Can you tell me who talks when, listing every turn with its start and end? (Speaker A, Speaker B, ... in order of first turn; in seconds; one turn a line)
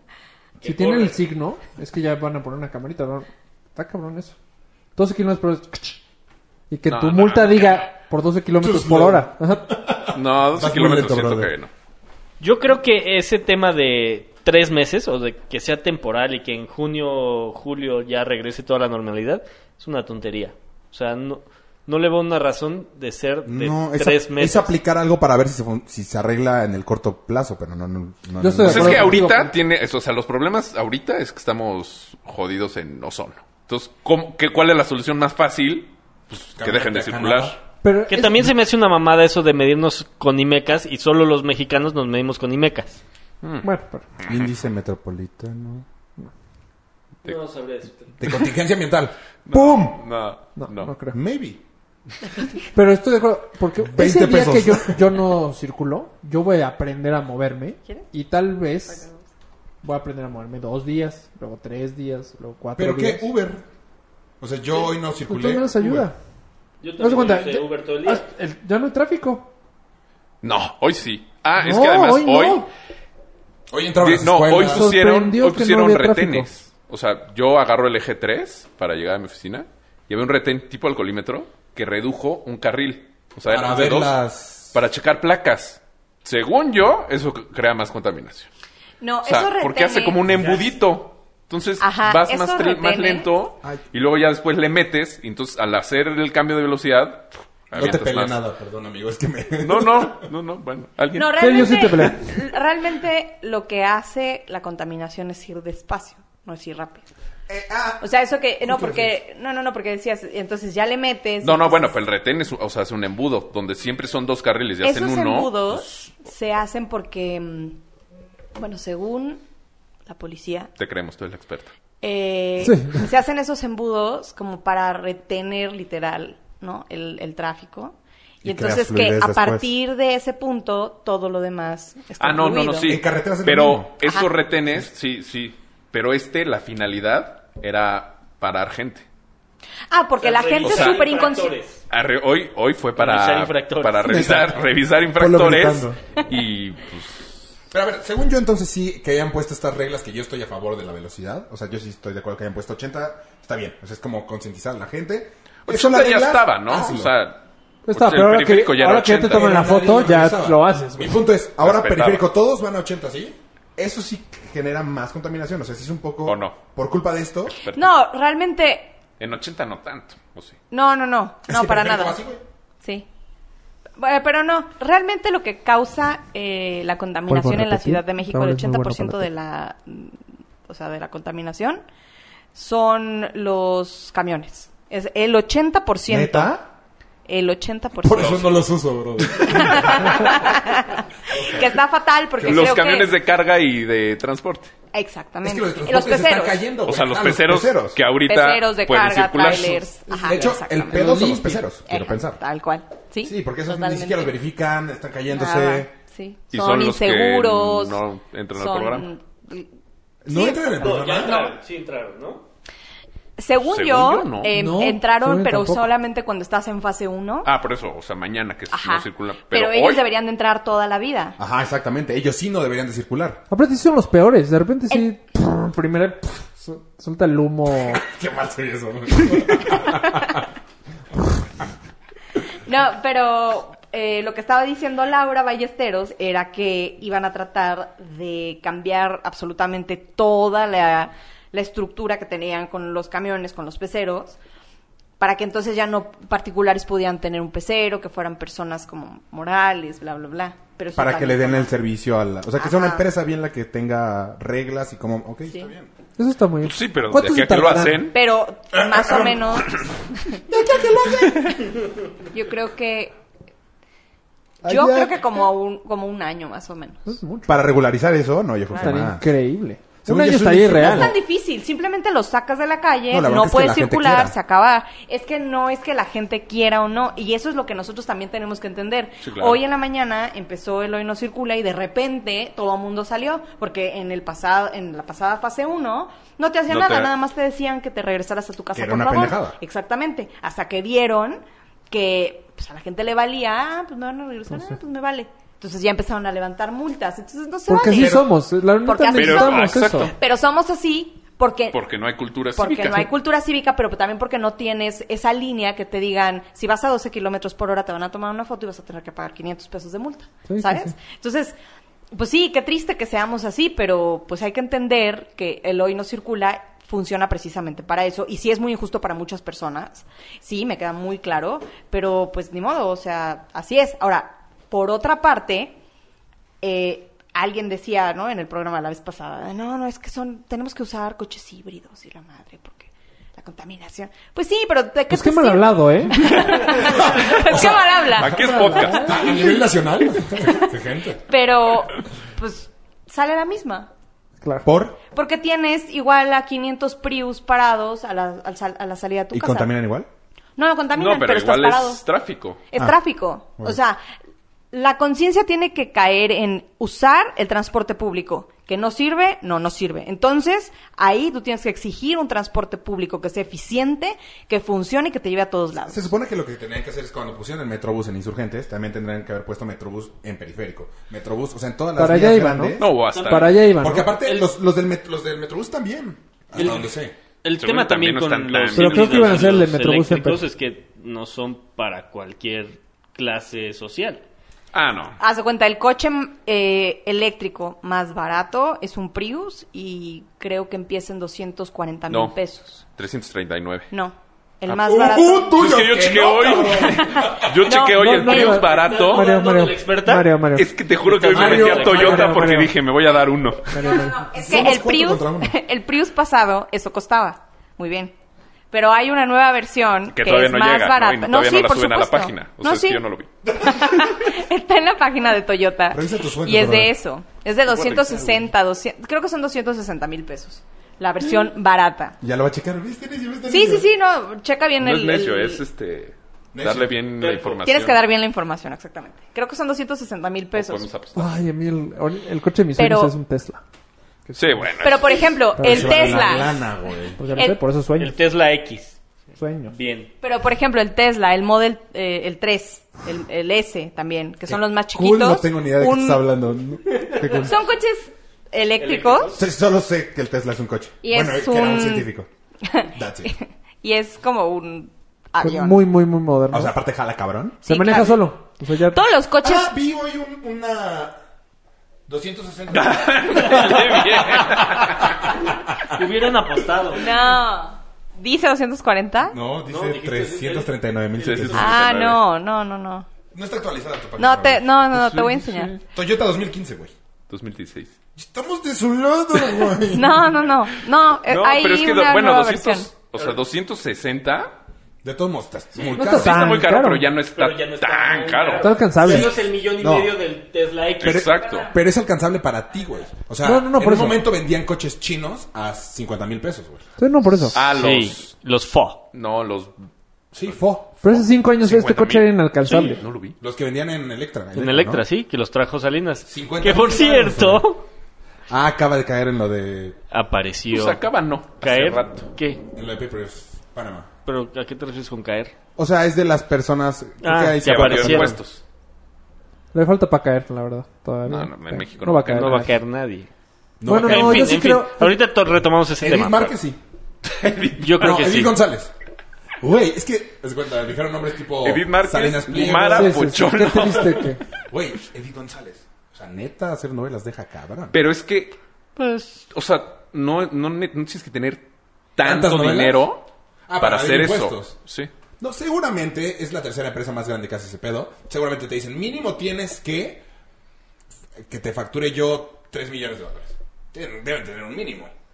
Speaker A: 0.6-1.2
Speaker B: 0.6-4.3
Speaker B: 5.0-6.0
Speaker B: 6.7-9.7
Speaker C: 6.9-7.9
Speaker D: 8.6-11.5
Speaker C: 10.1-11.7
Speaker A: 12.4-24.7
Speaker D: 23.5-29.3
Speaker B: 28.4-29.5
Speaker C: 28.6-37.6
Speaker D: 36.6-37.6
Speaker B: 37.8-38.5
Speaker A: 38.1-43.0
Speaker C: 43.4-43.7
Speaker B: 43.6-44.0
Speaker D: 44.3-45.9
Speaker A: 47.2-48.1
Speaker D: 48.2-50.0
Speaker C: 49.5-50.9
Speaker B: 50.6-51.2
Speaker D: 51.1-51.6
Speaker B: 52.7-59.1
Speaker D: 53.8-55.1
Speaker E: 58.9-59.2
Speaker B: 59.8-63.3
Speaker D: 62.8-63.6
Speaker D: 64.4-66.1
Speaker B: 65.3-66.2
Speaker A: 66.8-68.2
Speaker B: 67.0-69.5
Speaker C: 70.4-72.7
Speaker B: 71.6-72.7
Speaker D: 73.7-74.9
Speaker C: 74.0-84.2
Speaker B: 74.6-76.5
Speaker D: 83.5-84.8
Speaker C: 84.7-88.5
Speaker E: 89.0-90.2
Speaker C: 89.2-98.4
Speaker E: 91.8-93.3
Speaker D: 97.7-100.2
Speaker C: 99.6-101.8
Speaker E: 101.2-107.0
Speaker B: 101.4-102.3
Speaker D: 107.5-108.0
Speaker E: 108.0-112.0
Speaker D: 108.6-109.1
Speaker C: 111.4-116.1
Speaker E: 114.8-117.8
Speaker E: 118.5-119.4
Speaker E: 120.1-120.7
Speaker C: 120.8-121.7
Speaker E: 122.0-133.0
Speaker B: 122.6-123.0
Speaker D: 128.4-129.7
Speaker C: 132.2-139.1
Speaker D: 132.8-133.9
Speaker E: 134.0-134.3
Speaker E: 139.9-141.6
Speaker A: 140.2-141.8
Speaker C: 140.6-141.0
Speaker C: 141.9-147.5
Speaker A: 143.0-144.4
Speaker D: 144.1-144.6
Speaker D: 145.1-146.0
Speaker D: 147.7-157.1
Speaker C: 155.7-159.7
Speaker B: 157.9-161.2
Speaker D: 159.2-167.6
Speaker C: 161.6-162.3
Speaker C: 166.3-166.6
Speaker E: 167.7-168.9
Speaker C: 169.2-170.6
Speaker E: 170.7-172.2
Speaker D: 171.5-172.4
Speaker E: 174.0-181.8
Speaker B: 177.3-179.3
Speaker E: 182.5-186.6
Speaker D: 186.1-186.7
Speaker E: 187.3-188.4
Speaker D: 188.0-190.4
Speaker C: 188.2-188.5
Speaker E: 189.4-193.1
Speaker D: 191.3-191.8
Speaker D: 192.4-192.8
Speaker C: 192.4-194.7
Speaker E: 194.9-196.6
Speaker D: 195.4-198.0
Speaker C: 196.9-199.9
Speaker E: 198.3-201.3
Speaker D: 200.1-202.4
Speaker B: 200.9-201.7
Speaker E: 201.9-204.3
Speaker D: 203.2-205.9
Speaker E: 205.3-208.0
Speaker C: 206.5-209.1
Speaker E: 208.6-209.7
Speaker D: 210.2-211.5
Speaker E: 210.3-211.5
Speaker A: 210.8-212.4
Speaker E: 213.4-217.5
Speaker C: 213.6-214.5
Speaker B: 214.5-215.9
Speaker C: 217.4-220.0
Speaker E: 218.7-221.4
Speaker D: 221.4-223.4
Speaker B: 223.5-228.0
Speaker D: 227.8-230.4
Speaker E: 232.7-244.4
Speaker E: 245.2-251.7
Speaker D: 250.9-255.9
Speaker E: 252.6-253.1
Speaker B: 256.2-258.1
Speaker C: 256.6-258.2
Speaker E: 258.1-260.4
Speaker D: 258.8-259.4
Speaker D: 260.5-261.7
Speaker E: 261.3-261.6
Speaker E: 262.3-263.1
Speaker D: 264.6-265.5
Speaker E: 264.7-267.2
Speaker B: 267.1-267.6
Speaker D: 267.5-269.3
Speaker B: 268.7-271.1
Speaker D: 270.1-271.2
Speaker E: 270.8-298.3
Speaker D: 273.1-274.4
Speaker C: 279.2-279.6
Speaker C: 286.7-287.1
Speaker D: 288.7-289.6
Speaker B: 297.7-300.1
Speaker D: 297.9-298.3
Speaker E: 298.8-301.8
Speaker C: 299.1-300.1
Speaker C: 301.7-303.1
Speaker E: 302.6-311.6
Speaker B: 310.5-310.9
Speaker E: 312.1-325.8
Speaker E: 326.6-338.4
Speaker B: 335.1-336.2
Speaker C: 336.3-339.2
Speaker D: 336.8-341.2
Speaker B: 338.4-339.3
Speaker E: 341.3-343.9
Speaker B: 344.4-344.7
Speaker D: 344.6-345.0
Speaker E: 345.1-349.7
Speaker D: 349.3-350.1
Speaker E: 350.6-352.0
Speaker C: 350.9-352.6
Speaker E: 352.7-354.0
Speaker E: 354.7-366.1
Speaker D: 365.9-373.0
Speaker B: 372.0-374.1
Speaker C: 372.8-373.6
Speaker A: 373.1-373.6
Speaker D: 373.8-377.1
Speaker A: 374.2-374.5
Speaker A: 376.6-376.9
Speaker A: 377.4-384.2
Speaker C: 377.6-379.6
Speaker B: 378.7-380.5
Speaker C: 384.7-385.2
Speaker E: 385.2-392.8
Speaker C: 392.1-392.4
Speaker C: 393.0-393.9
Speaker E: 393.9-395.6
Speaker D: 394.8-397.4
Speaker C: 395.5-399.3
Speaker E: 396.7-398.6
Speaker B: 397.9-400.7
Speaker A: 398.6-400.3
Speaker C: 400.6-403.8
Speaker A: 401.0-402.5
Speaker D: 401.3-402.4
Speaker B: 401.3-402.7
Speaker B: 403.7-404.2
Speaker E: 403.8-408.1
Speaker D: 404.3-405.6
Speaker E: 408.7-422.2
Speaker C: 410.1-413.3
Speaker D: 415.9-416.9
Speaker C: 417.7-418.5
Speaker D: 422.2-423.9
Speaker E: 423.5-425.6
Speaker C: 424.8-428.0
Speaker D: 426.5-427.0
Speaker A: 427.2-427.6
Speaker E: 427.6-430.9
Speaker C: 430.5-431.4
Speaker B: 431.1-433.6
Speaker E: 432.8-433.1
Speaker B: 434.3-434.8
Speaker C: 434.4-435.3
Speaker E: 434.8-436.6
Speaker B: 435.6-436.5
Speaker D: 435.6-437.2
Speaker B: 437.2-438.2
Speaker E: 437.3-437.6
Speaker A: 438.0-439.0
Speaker B: 439.4-439.8
Speaker A: 439.7-440.1
Speaker E: 440.2-446.2
Speaker D: 444.5-447.6
Speaker A: 447.0-447.4
Speaker E: 447.4-449.4
Speaker A: 448.8-449.5
Speaker D: 449.4-452.3
Speaker E: 451.0-452.1
Speaker E: 452.6-455.9
Speaker D: 452.9-453.3
Speaker B: 455.4-456.8
Speaker D: 456.5-457.6
Speaker E: 457.6-459.7
Speaker B: 457.7-459.0
Speaker D: 459.4-461.2
Speaker D: 462.1-466.0
Speaker C: 462.7-465.2
Speaker A: 465.9-467.2
Speaker E: 466.9-469.4
Speaker D: 469.3-471.8
Speaker A: 469.6-471.6
Speaker C: 471.2-472.2
Speaker E: 471.5-473.1
Speaker D: 473.3-474.6
Speaker E: 474.2-475.7
Speaker C: 474.9-475.8
Speaker D: 475.9-476.9
Speaker C: 477.3-477.9
Speaker D: 478.2-480.4
Speaker E: 479.9-482.9
Speaker C: 481.3-484.6
Speaker D: 485.0-486.4
Speaker B: 486.0-487.1
Speaker C: 486.0-488.7
Speaker A: 487.3-491.4
Speaker B: 488.6-489.3
Speaker D: 489.1-490.2
Speaker C: 491.0-491.7
Speaker D: 491.0-496.8
Speaker E: 491.4-491.7
Speaker B: 493.4-494.3
Speaker B: 497.0-497.6
Speaker C: 497.6-498.3
Speaker A: 497.6-499.0
Speaker C: 499.1-503.4
Speaker D: 500.4-500.9
Speaker B: 501.0-503.0
Speaker A: 502.6-503.0
Speaker D: 503.4-505.0
Speaker A: 504.5-507.8
Speaker D: 506.3-507.6
Speaker D: 508.5-510.0
Speaker A: 510.1-511.0
Speaker C: 510.7-512.3
Speaker A: 511.6-512.6
Speaker D: 512.7-514.1
Speaker A: 514.3-515.5
Speaker D: 515.8-518.4
Speaker A: 517.2-518.4
Speaker C: 517.6-518.6
Speaker B: 519.7-522.8
Speaker C: 521.3-522.7
Speaker A: 522.3-523.3
Speaker D: 523.8-524.6
Speaker B: 523.9-525.2
Speaker A: 524.0-526.5
Speaker D: 526.0-526.8
Speaker C: 527.3-528.1
Speaker A: 527.8-528.5
Speaker D: 528.0-528.9
Speaker D: 529.6-533.9
Speaker C: 531.6-534.2
Speaker B: 532.9-534.4
Speaker D: 534.7-538.0
Speaker C: 537.9-541.6
Speaker C: 542.2-543.2
Speaker D: 542.2-543.1
Speaker D: 543.7-544.8
Speaker C: 543.8-545.1
Speaker D: 545.4-550.2
Speaker D: 551.4-555.1